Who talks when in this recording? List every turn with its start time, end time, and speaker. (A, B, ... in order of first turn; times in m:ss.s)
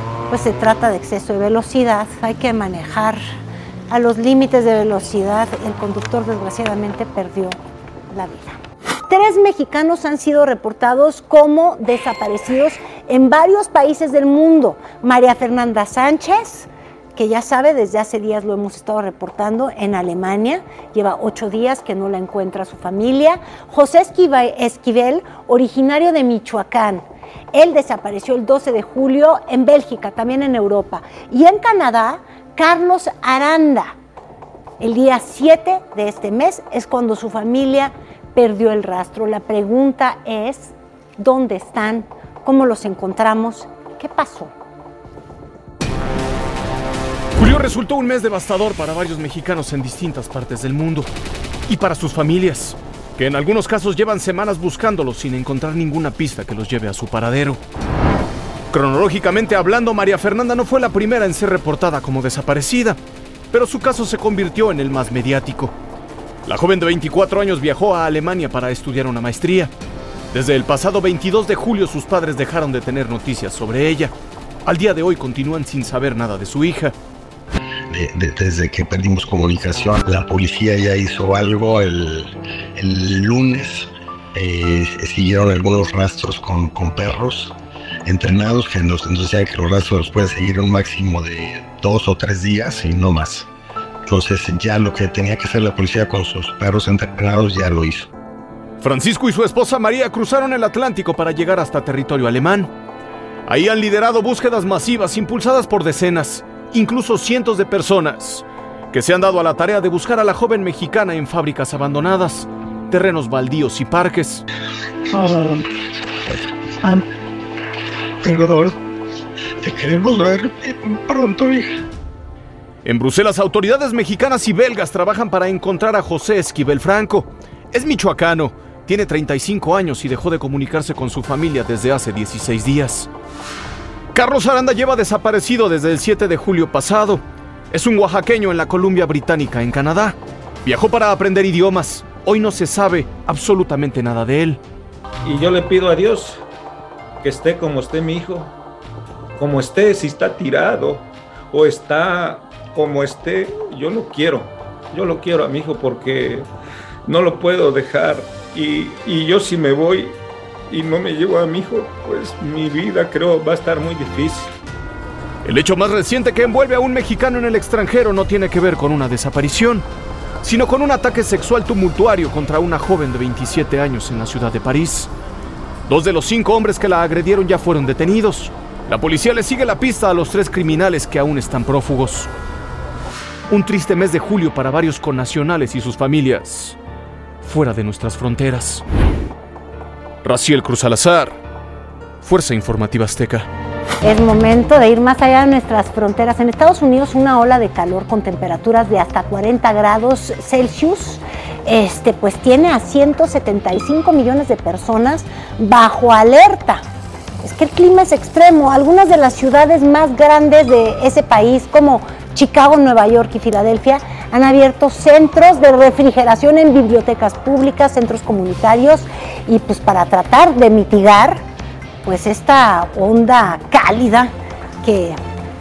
0:00.3-0:03.2 A
0:03.9-0:07.6 A
0:08.1-0:33.9 A
0:34.8-0:44.5 A
0:47.4-0:51.1 B
0:51.7-0:57.6 B
0:58.7-1:03.0 B
1:03.5-1:05.7 B
1:06.4-1:09.7 B
1:10.3-1:14.1 B
1:14.6-1:16.9 B
1:17.9-1:27.6 C
1:28.1-1:33.5 C
1:34.1-1:38.1 C
1:38.8-1:42.7 B
1:43.5-1:54.4 B
1:55.1-1:55.6 C
1:56.3-1:57.0 C
1:58.2-1:58.8 C
1:59.6-2:01.7 C
2:02.8-2:13.1 B
2:14.1-2:24.6 B
2:25.2-2:26.4 D
2:27.2-2:28.5 D
2:29.4-2:36.5 D
2:37.1-2:44.5 D
2:45.4-2:49.9 B
2:50.4-2:55.1 B
2:55.9-3:02.3 B
3:03.5-3:06.8 B
3:07.4-3:08.8 B
3:10.2-3:11.4 B
3:12.2-3:13.5 B
3:14.0-3:26.8 A
3:27.4-3:41.4 A
3:42.0-3:44.3 A
3:44.8-3:45.2 A